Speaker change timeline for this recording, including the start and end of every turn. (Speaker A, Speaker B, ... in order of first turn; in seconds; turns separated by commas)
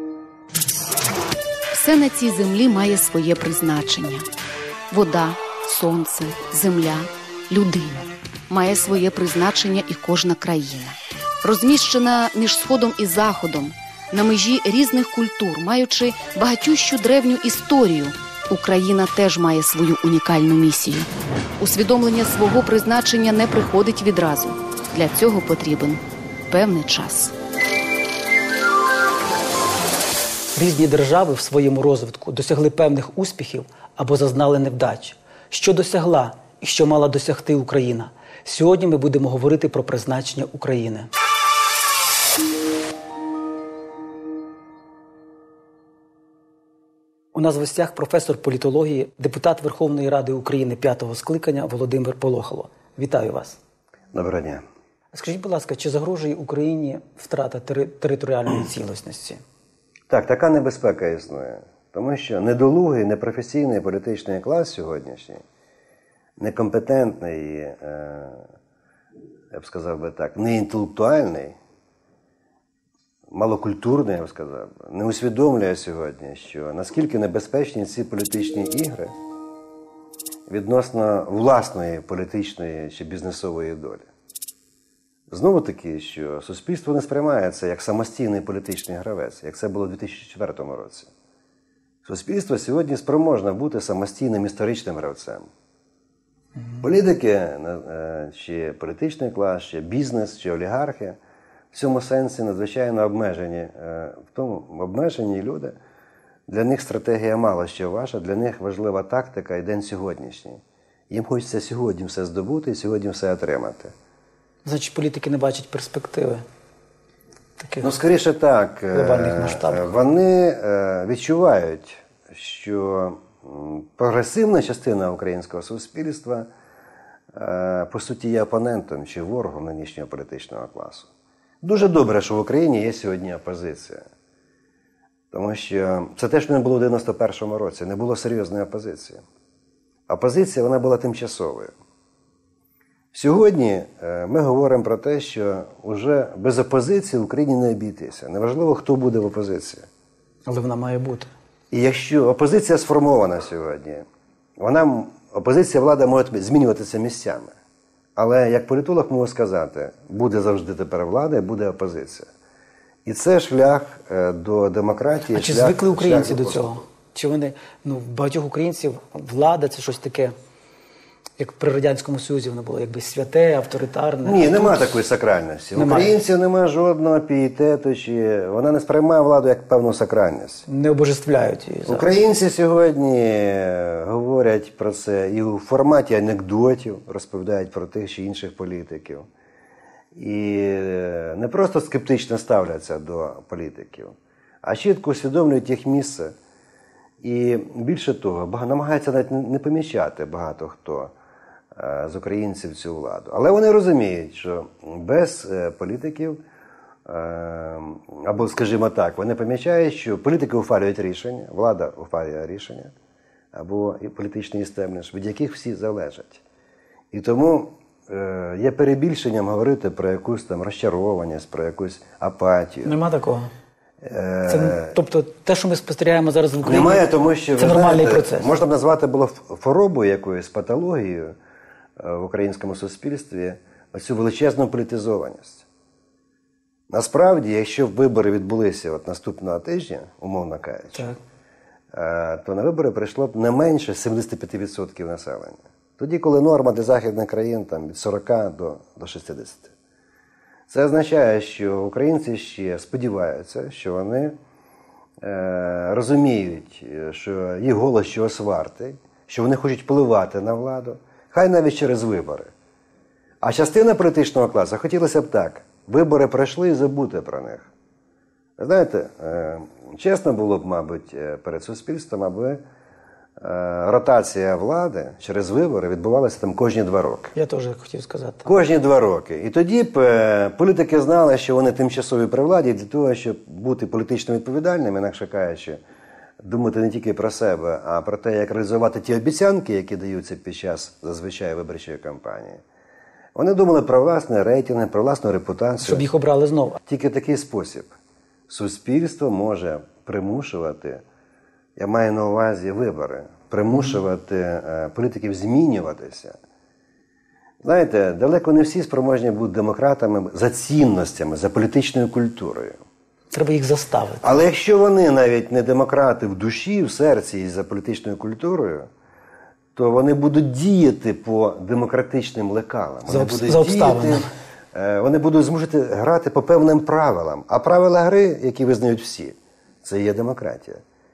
Speaker A: 1.7-4.2, Speaker A: 4.9-27.3, Speaker B: 30.6-41.1, Speaker B: 47.3-53.6, Speaker C: 54.1-54.6, Speaker B: 55.1-59.4, Speaker C: 60.1-65.4, Speaker C: 66.4-68.5, Speaker C: 69.5-71.6, Speaker C: 73.3-79.1, Speaker C: 80.5-84.1, Speaker C: 85.3-91.1, Speaker C: 92.0-95.5, Speaker C: 96.8-101.2, Speaker C: 101.7-105.7, Speaker C: 106.5-113.9, Speaker B: 114.6-116.4, Speaker B: 117.6-117.9, Speaker C: 117.8-126.5, Speaker B: 118.9-119.9, Speaker C: 127.3-131.1, Speaker C: 131.6-134.1, Speaker C: 135.3-139.2, Speaker C: 140.1-141.7, Speaker C: 143.1-149.9, Speaker B: 150.5-151.3, Speaker C: 151.7-154.1, Speaker C: 154.6-157.5, Speaker C: 158.2-162.3, Speaker C: 163.0-166.8, Speaker B: 165.3-170.3, Speaker B: 171.4-174.9, Speaker C: 174.2-180.6, Speaker B: 175.8-176.1, Speaker B: 180.7-182.2, Speaker C: 181.9-189.3, Speaker C: 190.1-196.3, Speaker C: 197.2-201.1, Speaker C: 201.7-206.4, Speaker C: 207.1-212.9, Speaker C: 213.5-216.4, Speaker C: 217.1-222.9, Speaker B: 222.8-223.5, Speaker C: 224.0-224.9, Speaker B: 224.4-227.1, Speaker C: 226.6-231.3, Speaker B: 227.6-228.5, Speaker C: 232.0-235.6, Speaker C: 236.9-241.1, Speaker C: 241.9-249.7, Speaker C: 250.7-254.4, Speaker C: 255.2-262.5, Speaker C: 263.4-267.7, Speaker C: 268.6-272.6, Speaker C: 273.4-277.3, Speaker B: 277.3-278.5, Speaker C: 278.4-285.8, Speaker C: 286.4-292.6, Speaker C: 293.3-296.1, Speaker B: 295.8-296.8, Speaker C: 296.9-297.9, Speaker C: 298.5-301.0, Speaker C: 301.8-306.4, Speaker C: 307.6-312.8, Speaker B: 313.3-314.4, Speaker C: 314.2-318.9, Speaker C: 319.8-330.8, Speaker B: 323.1-324.3